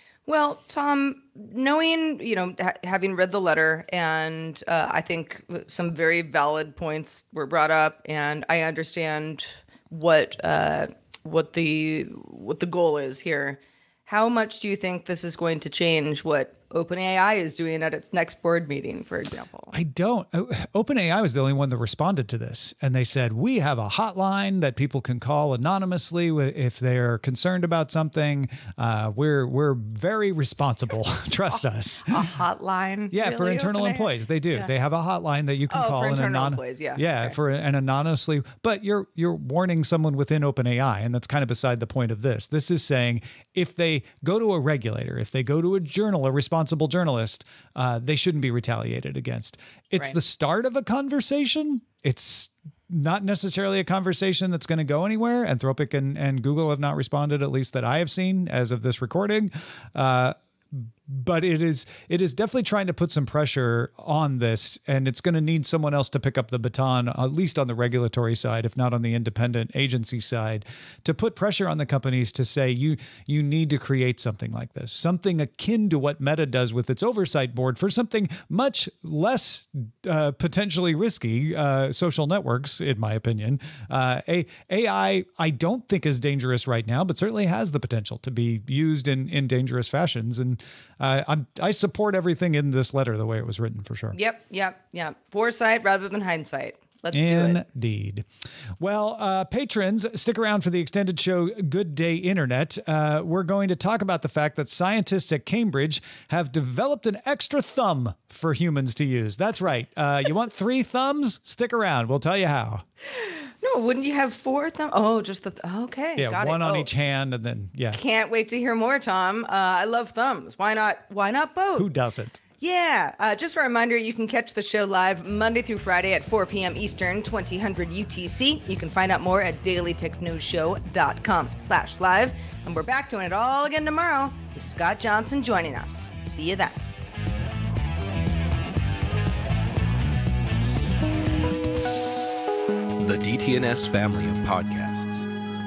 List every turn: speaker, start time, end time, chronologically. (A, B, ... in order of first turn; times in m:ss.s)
0:00.3-0:19.7 A
0:19.7-0:32.2 B
0:32.1-0:34.7 A
0:33.1-1:34.2 B
0:35.7-0:37.4 A
1:34.1-1:37.6 A
1:37.1-1:38.2 B
1:38.8-1:52.8 B
1:53.2-1:56.9 A
1:56.2-1:58.0 B
1:57.9-2:01.9 A
2:01.8-2:02.4 B
2:02.6-2:16.8 A
2:23.0-2:25.3 C